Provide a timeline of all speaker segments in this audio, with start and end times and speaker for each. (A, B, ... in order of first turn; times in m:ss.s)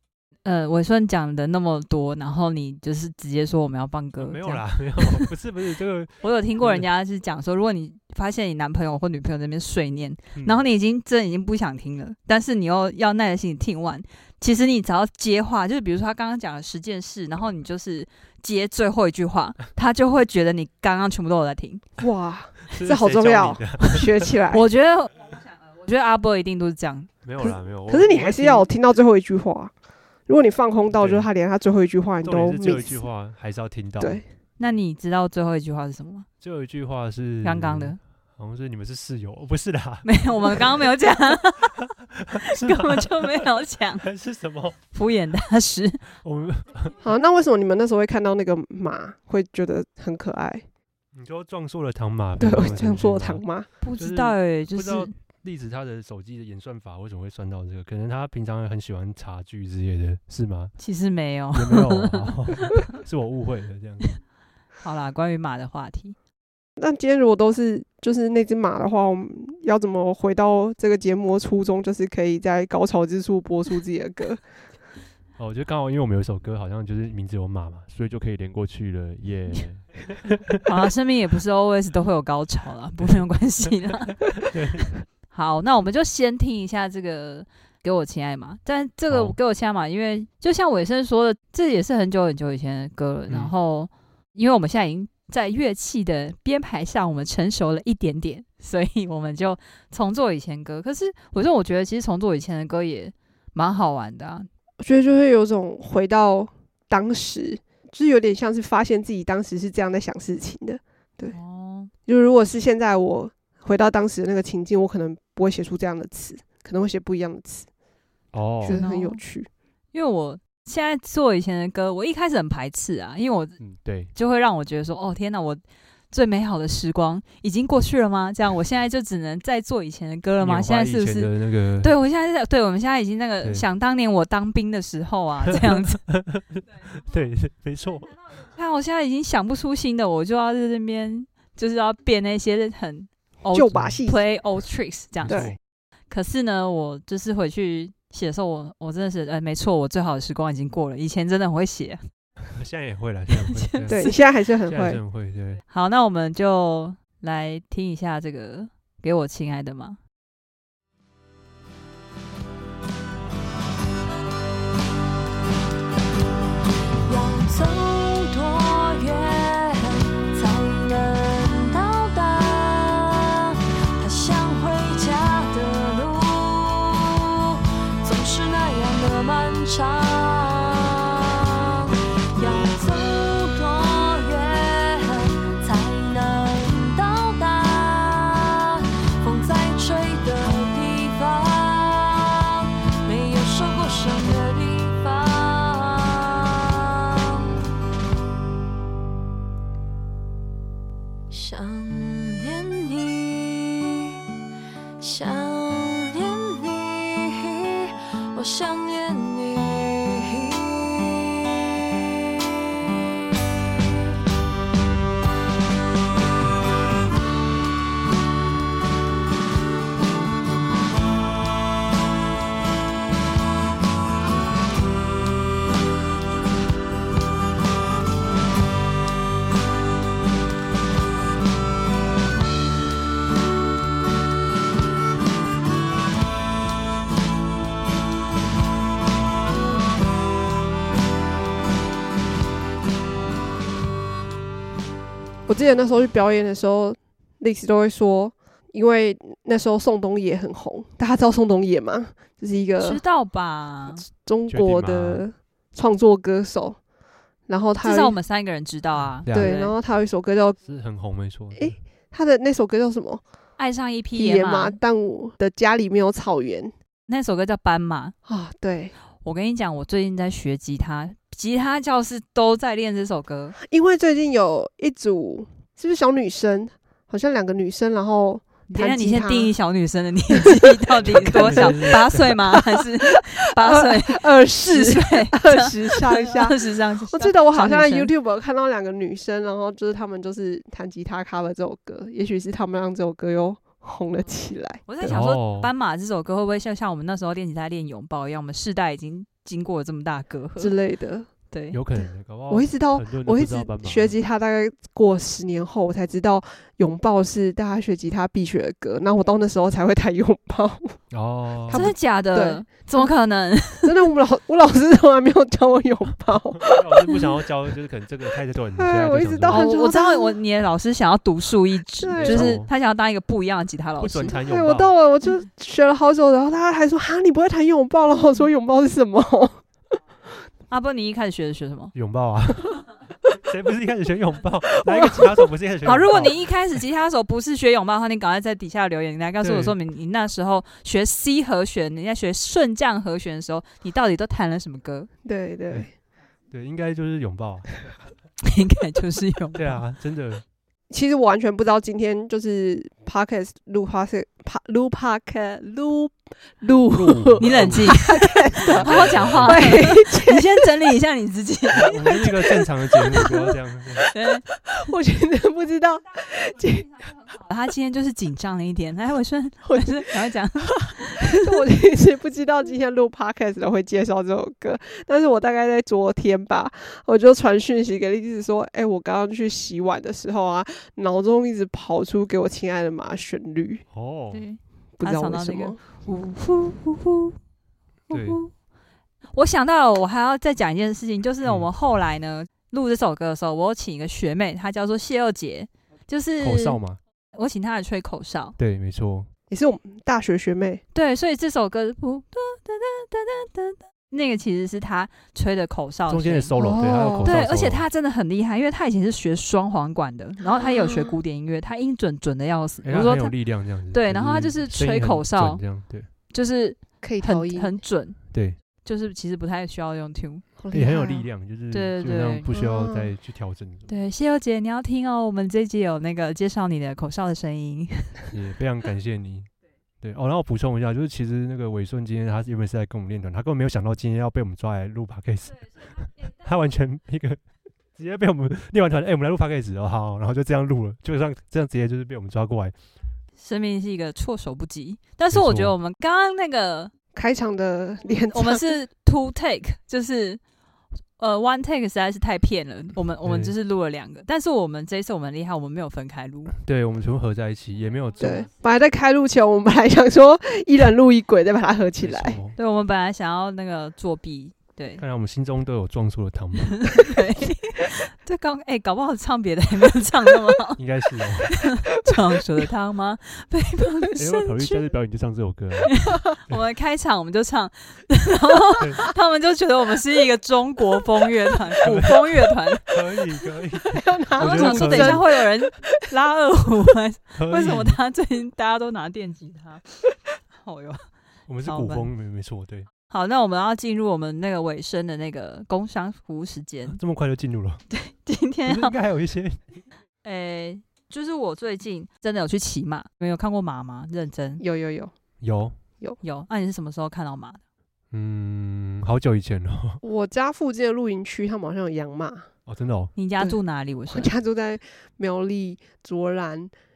0:00.4-0:05.3 A
0:04.2-0:06.9 B
0:06.2-0:21.8 A
0:10.3-0:10.6 B
0:22.0-0:24.6 C
0:22.7-0:24.3 B
0:24.5-0:27.1 A
0:27.2-0:28.6 B
0:27.4-0:29.7 C
0:30.3-0:33.0 C
0:30.9-0:31.3 B
0:32.2-0:34.2 B
0:34.0-0:34.2 C
0:34.6-0:36.3 A
0:36.4-0:40.7 B
0:37.4-0:38.0 A
0:40.0-0:41.9 A
0:42.1-0:43.4 B
0:42.5-0:44.0 A
0:44.0-0:44.8 B
0:44.9-0:46.0 A
0:46.2-0:47.0 B
0:47.0-0:50.6 C
0:51.1-0:53.4 B
0:52.4-0:53.7 C
0:53.8-0:55.1 A
0:54.0-1:00.7 B
1:00.8-1:02.7 A
1:01.5-1:04.1 B
1:04.8-1:06.2 A
1:06.8-1:14.4 C
1:15.4-1:20.6 B
1:20.6-1:24.5 A
1:24.4-1:24.8 B
1:25.2-1:44.5 A
1:29.1-1:29.4 B
1:44.8-1:51.3 C
1:51.3-1:51.9 A
1:52.1-1:57.7 C
1:58.3-1:58.8 B
1:58.6-1:59.5 C
1:58.7-1:59.2 A
1:59.9-2:03.6 A
2:03.6-2:04.1 B
2:04.1-2:16.0 A
2:10.4-2:11.9 B
2:15.5-2:18.2 B
2:18.4-2:25.6 A
2:23.5-2:24.2 C
2:23.7-2:24.0 B
2:25.2-2:25.6 B
2:25.3-2:25.5 C
2:26.1-2:32.0 A
2:32.5-2:34.1 B
2:33.6-2:34.2 A
2:33.9-2:35.0 C
2:34.6-2:35.6 B
2:35.7-2:40.0 A
2:47.0-3:17.6 D
3:21.3-3:24.2 D
3:25.0-3:31.5 D
4:05.5-4:13.0 C
4:12.8-4:14.0 A
4:13.9-4:16.8 C
4:14.5-4:15.2 B
4:17.5-4:18.2 C
4:17.8-4:19.7 A
4:19.1-4:19.5 B
4:19.3-4:20.6 C
4:20.6-4:21.8 B
4:21.6-4:23.2 C
4:23.6-4:24.8 A
4:24.1-4:26.7 C
4:27.1-4:28.1 A
4:28.2-4:28.9 C
4:29.2-4:33.6 A
4:33.6-4:39.5 C
4:38.7-4:48.1 A
4:41.0-4:42.3 B
4:41.1-4:42.7 C
4:43.6-4:46.6 C
4:47.1-4:55.2 C
4:54.9-5:00.7 A
4:55.0-4:55.7 B
5:00.6-5:01.3 C
5:01.5-5:01.8 A
5:01.7-5:04.2 B
5:02.0-5:11.0 C
5:11.1-5:11.8 B
5:11.6-5:12.6 C
5:11.7-5:13.9 A
5:13.8-5:17.4 C
5:16.6-5:19.6 B
5:18.8-5:20.4 C
5:19.5-5:24.4 A
5:22.0-5:22.6 C
5:22.2-5:22.7 B
5:24.0-5:24.9 B
5:24.3-5:29.6 C
5:30.7-5:31.9 A
5:31.9-5:32.8 B
5:33.4-5:36.6 B
5:34.8-5:35.4 C
5:35.8-5:45.1 A
5:39.4-5:39.8 B
5:45.2-5:45.9 C
5:46.5-5:47.9 B
5:48.4-5:49.8 A
5:49.5-5:50.4 B
5:50.9-6:00.6 C
5:56.9-5:59.7 B
5:57.4-6:02.3 A
6:01.8-6:04.1 B
6:02.1-6:03.5 C
6:04.1-6:04.4 A
6:04.6-6:07.0 C
6:07.3-6:11.4 A
6:09.6-6:09.9 C
6:11.2-6:23.8 C
6:23.9-6:24.4 B
6:24.3-6:27.4 A
6:25.0-6:25.8 C
6:28.1-6:28.5 A
6:28.1-6:28.4 B
6:29.3-6:36.8 A
6:36.4-6:37.0 B
6:37.3-6:38.6 A
6:38.6-6:39.3 B
6:39.5-6:40.8 C
6:40.9-6:46.5 A
6:46.1-6:47.8 B
6:46.6-6:47.4 C
6:47.2-6:53.4 A
6:50.4-6:51.2 C
6:52.8-6:56.1 B
6:53.9-7:00.4 A
6:57.0-6:57.8 C
7:00.6-7:01.3 C
7:00.7-7:03.9 B
7:01.7-7:02.4 A
7:02.5-7:03.1 C
7:03.9-7:08.2 A
7:08.3-7:09.5 B
7:10.0-7:17.4 B
7:17.9-7:22.7 B
7:23.4-7:26.9 A
7:25.3-7:25.7 B
7:27.1-7:28.6 C
7:28.3-7:30.4 A
7:31.2-7:36.5 A
7:33.2-7:33.5 B
7:36.6-7:38.4 B
7:38.2-7:42.4 C
7:42.0-7:42.6 B
7:42.6-7:45.0 A
7:45.0-7:47.1 B
7:46.8-7:50.8 A
7:50.8-7:51.6 B
7:51.5-7:54.8 A
7:54.2-7:56.6 B
7:55.9-8:02.9 A
8:01.8-8:05.3 B
8:03.9-8:05.4 C
8:04.4-8:09.8 A
8:07.3-8:08.0 B
8:10.6-8:11.1 A
8:11.5-8:12.9 B
8:11.6-8:12.1 A
8:13.1-8:17.0 A
8:16.9-8:17.8 B
8:17.9-8:18.9 A
8:18.6-8:19.8 B
8:20.2-8:24.6 A
8:24.6-8:25.1 C
8:25.4-8:25.8 B
8:26.2-8:27.6 A
8:28.1-8:30.0 B
8:30.0-8:32.5 C
8:32.7-8:33.1 B
8:33.2-8:34.3 A
8:33.4-8:36.7 C